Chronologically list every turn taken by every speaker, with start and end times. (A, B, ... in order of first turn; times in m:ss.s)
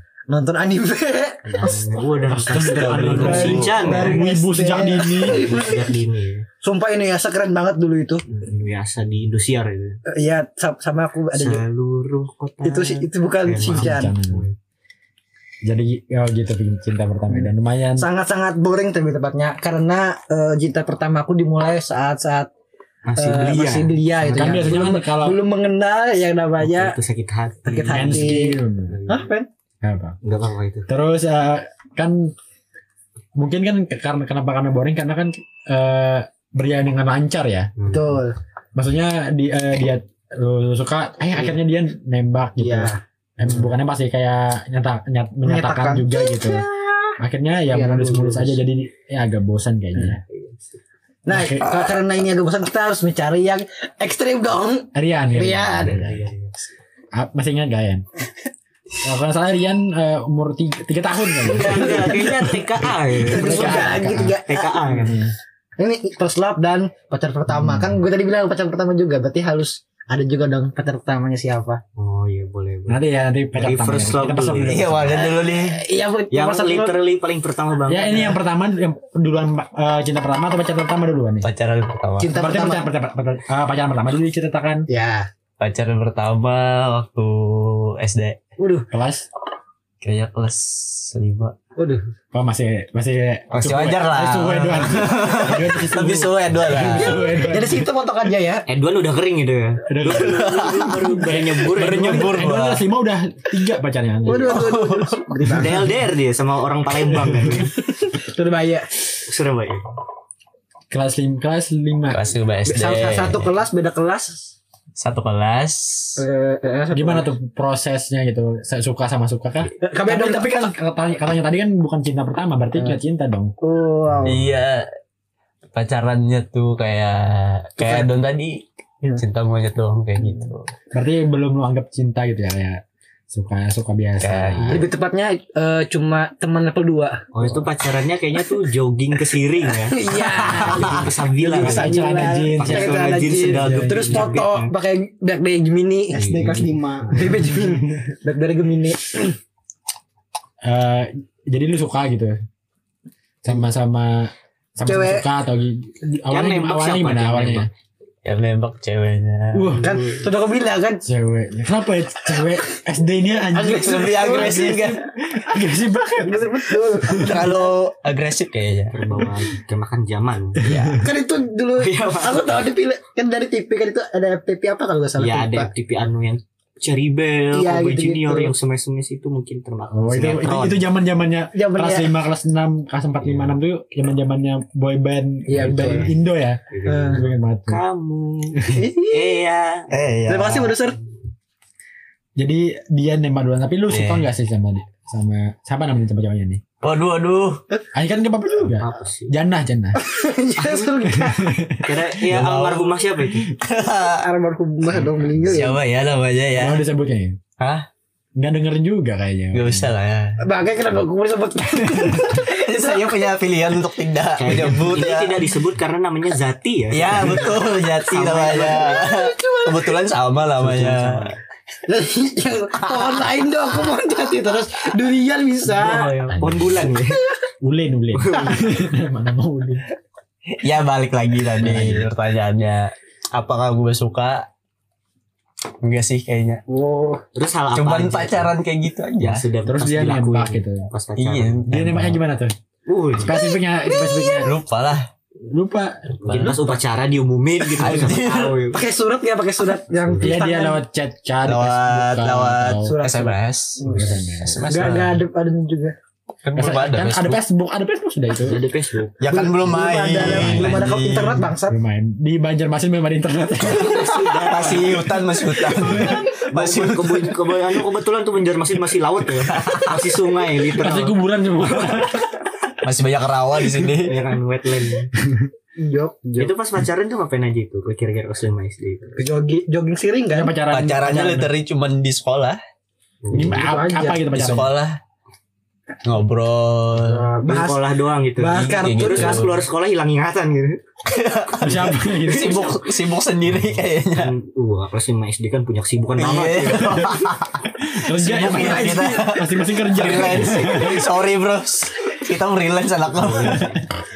0:00.3-0:02.0 A
0:01.4-0:04.3 B
0:02.2-0:05.5 C
0:02.5-0:04.1 D
0:03.2-0:05.9 A
0:05.3-0:06.4 B
0:06.6-0:08.2 A
0:08.3-0:10.0 B
0:10.1-0:11.6 A
0:11.3-0:14.6 B
0:12.6-0:14.1 A
0:13.6-0:14.4 C
0:15.6-0:18.1 C
0:17.3-0:22.5 A
0:23.0-0:24.0 B
0:23.2-0:27.0 A
0:24.2-0:25.4 C
0:26.6-0:29.3 B
0:27.6-0:29.5 A
0:27.9-0:29.0 C
0:29.8-0:30.2 C
0:30.2-0:30.9 B
0:30.9-0:32.3 C
0:33.4-0:37.7 C
0:37.8-0:38.1 B
0:37.9-0:38.4 A
0:38.7-0:46.6 C
0:42.6-0:43.0 A
0:45.4-0:47.1 A
0:47.2-0:50.2 C
0:47.7-0:48.6 A
0:50.3-0:50.6 B
0:51.2-0:56.0 A
0:51.3-0:51.8 C
0:54.9-0:56.2 C
0:55.8-0:56.5 B
0:57.1-0:58.0 C
0:59.0-1:04.4 C
1:01.5-1:05.2 B
1:01.6-1:02.2 A
1:03.2-1:05.1 A
1:04.9-1:05.3 C
1:05.8-1:11.8 A
1:07.5-1:07.9 C
1:12.0-1:13.0 B
1:12.9-1:15.2 C
1:13.5-1:14.9 B
1:14.6-1:15.8 D
1:15.1-1:17.0 A
1:16.3-1:18.4 B
1:17.9-1:21.5 C
1:21.4-1:22.4 D
1:22.2-1:22.8 A
1:22.3-1:24.9 C
1:24.9-1:25.3 A
1:25.6-1:28.4 D
1:28.6-1:28.9 A
1:28.9-1:29.3 C
1:30.0-1:31.5 D
1:31.8-1:32.0 A
1:32.3-1:37.8 C
1:33.5-1:37.2 D
1:36.7-1:38.6 A
1:38.7-1:42.4 B
1:39.9-1:44.6 C
1:40.1-1:41.1 D
1:41.7-1:42.8 D
1:44.2-1:45.9 A
1:44.5-1:45.5 D
1:45.5-1:47.7 B
1:47.2-1:47.5 C
1:48.0-1:48.9 A
1:49.2-1:49.9 B
1:50.9-1:52.2 C
1:52.1-1:53.5 D
1:52.6-1:54.5 A
1:55.0-1:56.2 D
1:56.2-1:57.3 A
1:56.9-2:03.5 C
1:59.8-2:00.7 A
2:03.6-2:04.5 A
2:04.2-2:04.9 D
2:05.7-2:08.6 D
2:07.8-2:08.1 A
2:09.2-2:10.7 D
2:10.9-2:14.8 C
2:14.2-2:14.8 D
2:14.7-2:17.2 A
2:17.3-2:20.0 B
2:19.8-2:29.4 A
2:20.5-2:24.7 B
2:21.6-2:24.3 C
2:26.1-2:26.7 B
2:26.3-2:27.6 C
2:30.6-2:32.4 C
2:33.4-2:37.7 C
2:34.8-2:35.3 A
2:36.3-2:37.7 B
2:38.2-2:39.8 D
2:39.5-2:39.9 C
2:39.8-2:41.0 A
2:39.8-2:40.1 B
2:41.0-2:47.5 C
2:43.5-2:44.9 A
2:43.7-2:45.0 D
2:46.2-2:47.7 A
2:47.2-2:49.0 D
2:48.9-2:50.6 B
2:50.6-2:51.1 C
2:50.6-2:51.0 D
2:50.9-2:55.7 A
2:51.8-2:52.6 B
2:55.2-3:00.8 B
2:57.5-2:58.5 A
2:59.9-3:07.8 C
3:01.5-3:02.2 A
3:03.2-3:03.5 B
3:05.5-3:06.1 A
3:06.7-3:09.9 B
3:06.8-3:07.2 A
3:08.6-3:08.8 C
3:08.7-3:09.4 A
3:09.9-3:10.8 D
3:10.2-3:11.0 A
3:12.4-3:16.6 C
3:13.9-3:14.2 D
3:16.8-3:17.6 D
3:17.9-3:20.0 C
3:18.7-3:19.3 B
3:19.9-3:21.5 A
3:20.6-3:20.9 B
3:21.1-3:22.0 C
3:21.8-3:23.5 B
3:22.2-3:24.2 D
3:24.2-3:25.8 A
3:24.9-3:26.8 D
3:26.5-3:27.4 C
3:27.6-3:27.9 D
3:28.4-3:29.9 C
3:29.5-3:30.4 D
3:30.4-3:33.2 A
3:31.9-3:32.3 C
3:32.4-3:35.4 D
3:34.4-3:39.0 B
3:36.9-3:41.2 D
3:38.8-3:39.9 A
3:40.6-3:41.4 B
3:41.9-3:46.1 A
3:42.8-3:43.2 D
3:45.6-3:47.2 B
3:46.3-3:46.7 C
3:47.6-3:49.8 C
3:48.1-3:48.6 B
3:50.6-3:54.5 D
3:51.6-3:52.1 C
3:55.8-3:56.6 D
3:56.7-3:57.2 A
3:57.3-3:58.5 B
3:57.7-3:59.4 D
3:59.2-4:01.6 B
3:59.6-4:00.9 C
4:01.2-4:02.2 D
4:01.7-4:02.5 C
4:02.9-4:03.4 B
4:03.1-4:04.5 C
4:04.1-4:04.3 A
4:04.4-4:05.1 D
4:05.5-4:06.7 C
4:06.2-4:08.8 B
4:06.3-4:06.6 D
4:07.7-4:08.6 D
4:08.7-4:10.8 A
4:10.0-4:10.4 B
4:10.2-4:12.9 C
4:11.4-4:15.2 D
4:12.8-4:14.1 A
4:13.9-4:14.7 C
4:14.7-4:16.0 A
4:16.4-4:17.4 D
4:16.6-4:18.6 C
4:18.4-4:19.2 B
4:19.2-4:21.5 D
4:19.3-4:21.8 A
4:20.2-4:20.9 C
4:21.6-4:24.0 C
4:23.7-4:25.0 B
4:23.7-4:27.4 D
4:25.8-4:26.2 C
4:25.9-4:31.2 B
4:29.5-4:30.0 D
4:30.8-4:32.4 C
4:32.8-4:34.2 D
4:34.0-4:35.1 B
4:35.2-4:35.5 C
4:35.8-4:36.5 A
4:36.4-4:39.2 B
4:39.2-4:40.6 A
4:40.3-4:41.5 C
4:40.7-4:42.6 D
4:43.2-4:43.6 B
4:43.3-4:44.7 C
4:43.3-4:44.3 A
4:44.3-4:45.0 D
4:46.0-4:47.3 D
4:47.0-4:49.6 A
4:47.4-4:50.8 B
4:48.5-4:49.6 D
4:51.1-4:54.3 D
4:51.6-4:52.8 C
4:54.1-4:57.1 B
4:56.2-5:03.7 D
4:57.8-5:01.1 C
4:58.6-4:59.2 A
5:03.3-5:03.8 C
5:03.4-5:03.7 B